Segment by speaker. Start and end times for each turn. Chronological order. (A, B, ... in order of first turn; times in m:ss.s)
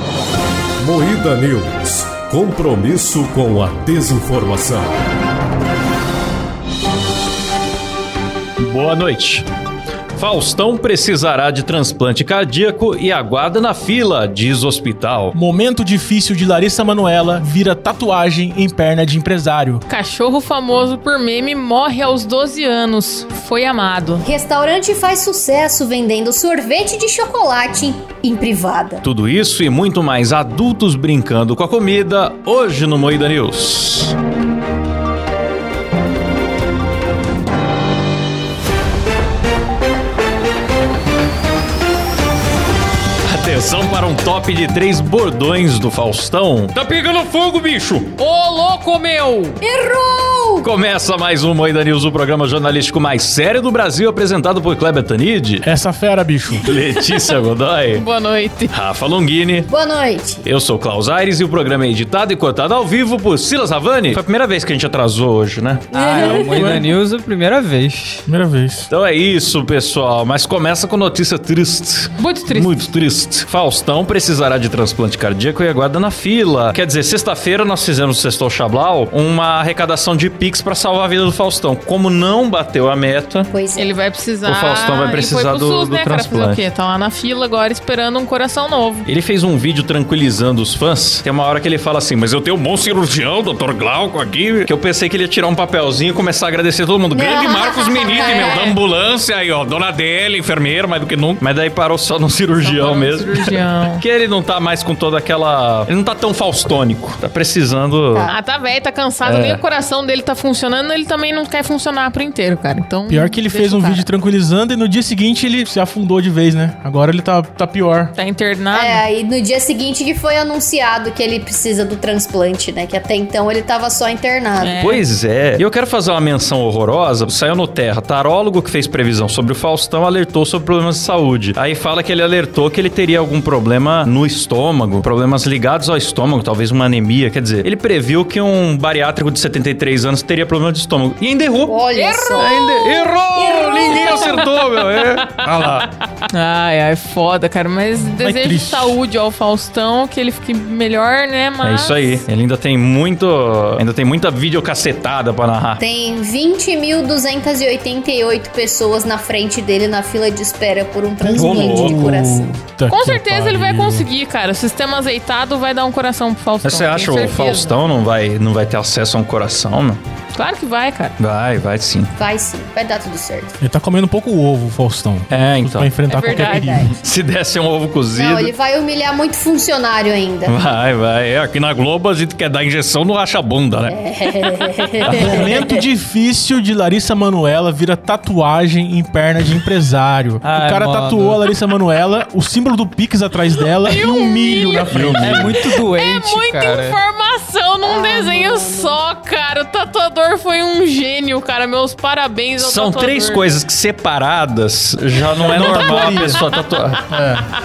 0:00.8-0:04.9 A
0:08.6-0:09.4 B
0:10.2-0:15.4 B
0:15.3-0:19.8 C
0:19.9-0:24.2 D
0:24.2-0:29.0 E
0:29.0-0:34.1 B
0:43.2-0:48.2 B
0:48.2-0:49.6 D
0:49.6-0:50.7 E
0:50.6-0:55.6 B
0:55.6-0:56.7 C
0:56.6-0:58.0 B
0:57.9-0:58.7 D
0:58.7-0:59.7 B
0:59.7-1:00.4 E
1:00.4-1:06.4 B
1:05.9-1:06.7 E
1:05.9-1:08.2 F
1:06.4-1:07.0 C
1:08.3-1:08.9 C
1:08.9-1:23.5 B
1:12.2-1:12.8 D
1:23.5-1:23.9 E
1:23.8-1:29.1 D
1:24.4-1:26.6 B
1:29.0-1:48.3 B
1:37.1-1:38.7 E
1:38.2-1:38.7 D
1:42.6-1:44.0 D
1:48.3-1:54.0 D
1:49.2-1:49.6 B
1:53.1-1:58.1 C
1:58.2-1:59.0 D
1:58.7-2:04.8 E
2:04.6-2:05.0 D
2:04.8-2:21.8 B
2:21.6-2:22.6 E
2:21.9-2:22.5 D
2:22.3-2:25.8 B
2:23.4-2:24.3 E
2:25.4-2:25.8 C
2:26.3-2:32.2 D
2:28.2-2:29.0 C
2:31.6-2:35.8 B
2:35.8-2:42.5 E
2:41.2-2:44.1 C
2:41.3-2:42.0 B
2:42.9-2:47.8 D
2:46.6-2:50.0 B
2:50.3-2:51.1 D
2:51.2-2:52.1 B
2:52.2-2:53.6 E
2:53.6-2:56.9 C
2:55.3-2:56.0 B
2:56.1-2:56.8 D
2:56.3-2:56.9 E
2:57.0-2:58.5 B
2:58.1-3:00.6 E
3:00.4-3:04.0 B
3:03.9-3:05.7 E
3:05.0-3:05.5 B
3:05.1-3:15.4 C
3:10.4-3:11.5 F
3:13.8-3:23.5 D
3:14.9-3:15.6 B
3:15.1-3:17.0 F
3:17.8-3:19.0 E
3:22.6-3:27.0 B
3:25.4-3:26.4 C
3:25.6-3:26.9 D
3:27.1-3:27.4 C